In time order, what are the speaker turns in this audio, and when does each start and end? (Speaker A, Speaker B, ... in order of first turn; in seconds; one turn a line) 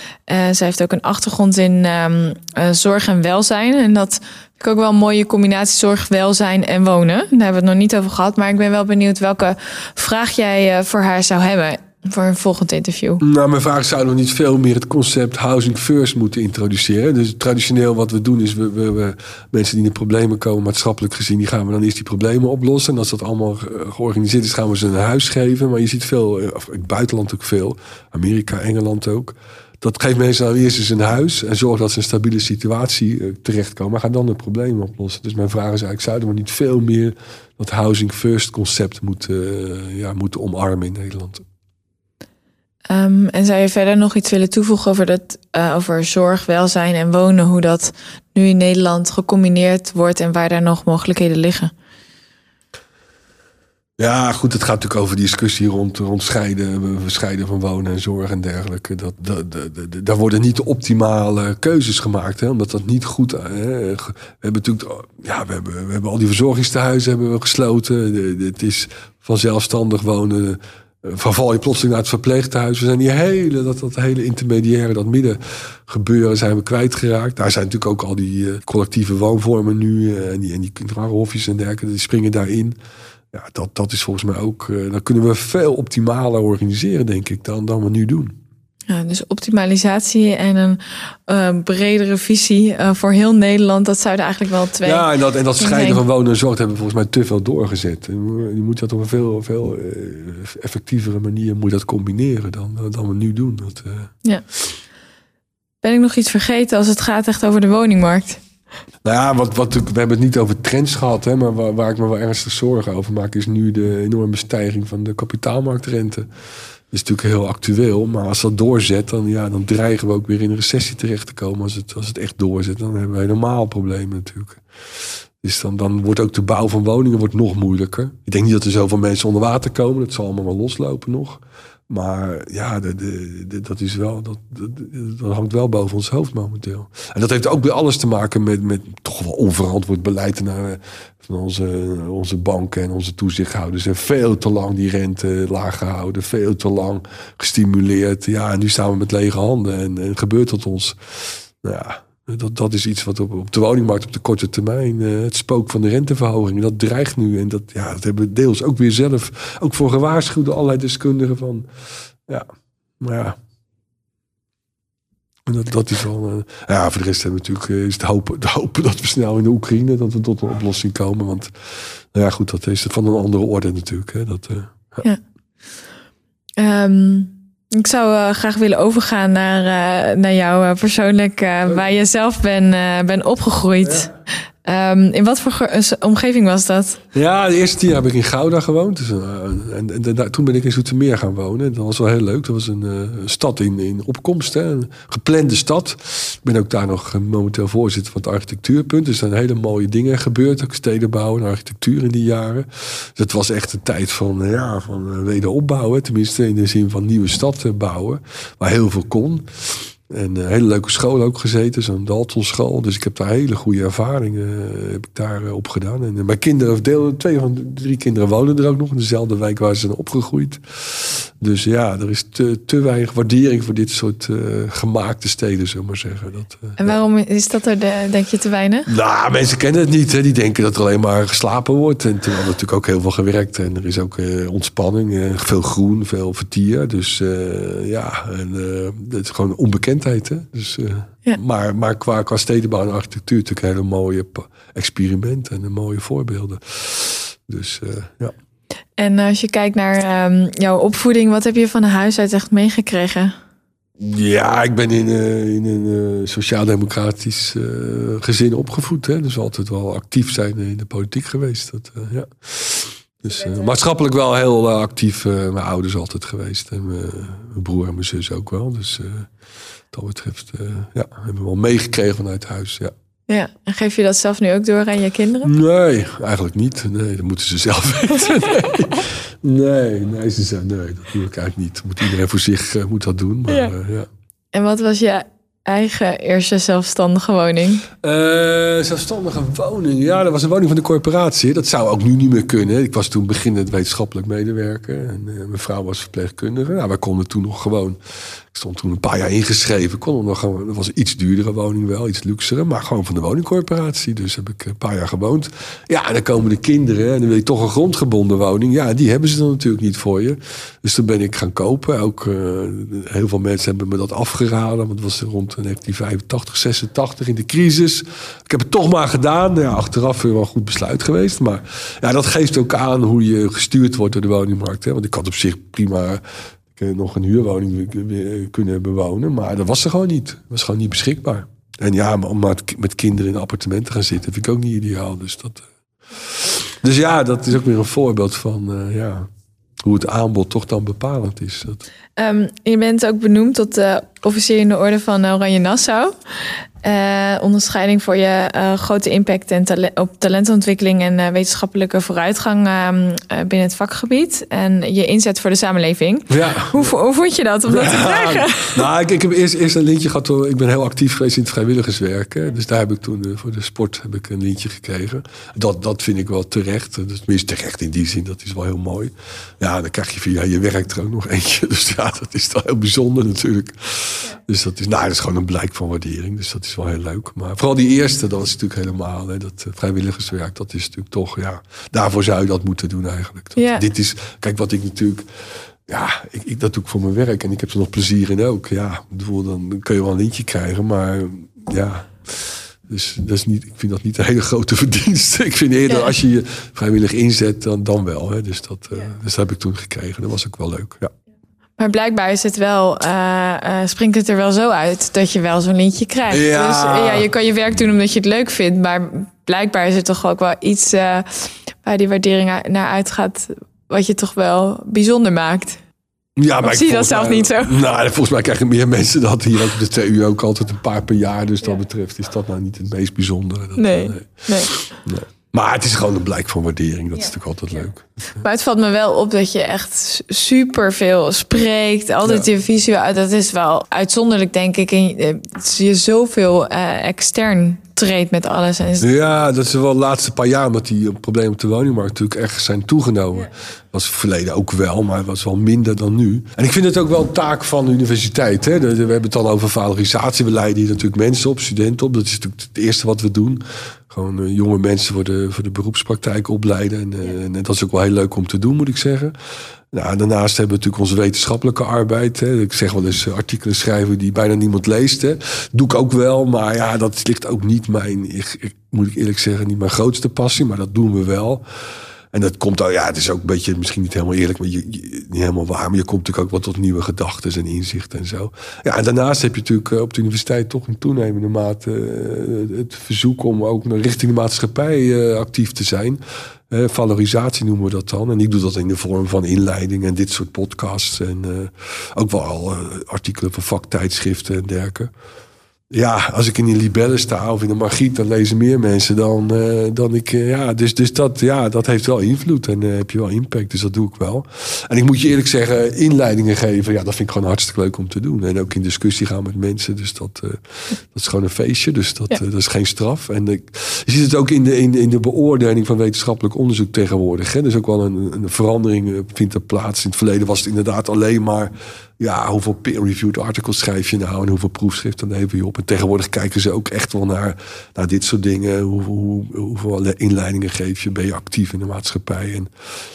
Speaker A: 0.3-13.2
Speaker B: 13.2-41.4
Speaker A: 42.9-51.7
Speaker B: 54.0-82.8
Speaker B: 83.3-88.3
Speaker A: 88.9-95.1
Speaker B: 94.8-104.1
Speaker A: 95.6-96.0
Speaker A: 105.8-108.4
Speaker B: 109.0-116.3
Speaker B: 116.9-124.6
Speaker B: 125.4-161.7
Speaker B: 163.0-163.4
Speaker B: 165.5-175.1
Speaker A: 176.6-184.1
Speaker A: 184.7-187.0
Speaker B: 187.1-226.9
Speaker A: 226.8-228.9
Speaker B: 228.9-248.3
Speaker A: 249.0-253.4
Speaker B: 254.0-269.3
Speaker B: 269.9-272.9
Speaker A: 273.3-275.5
Speaker B: 275.4-284.1
Speaker A: 284.5-287.9
Speaker B: 288.0-298.0
Speaker B: 298.5-326.2
Speaker B: 326.7-335.7
Speaker B: 336.2-339.3
Speaker B: 339.8-341.8
Speaker A: 342.2-358.9
Speaker B: 356.3-356.9
Speaker B: 357.7-385.3
Speaker A: 383.6-383.9
Speaker B: 385.9-401.1
Speaker A: 401.8-415.8
Speaker B: 406.3-407.3
Speaker B: 416.4-428.1
Speaker A: 416.6-417.8
Speaker A: 423.8-424.7
Speaker A: 428.4-439.1
Speaker B: 439.0-459.3
Speaker B: 459.9-471.6
Speaker B: 472.3-495.1
Speaker B: 495.9-532.7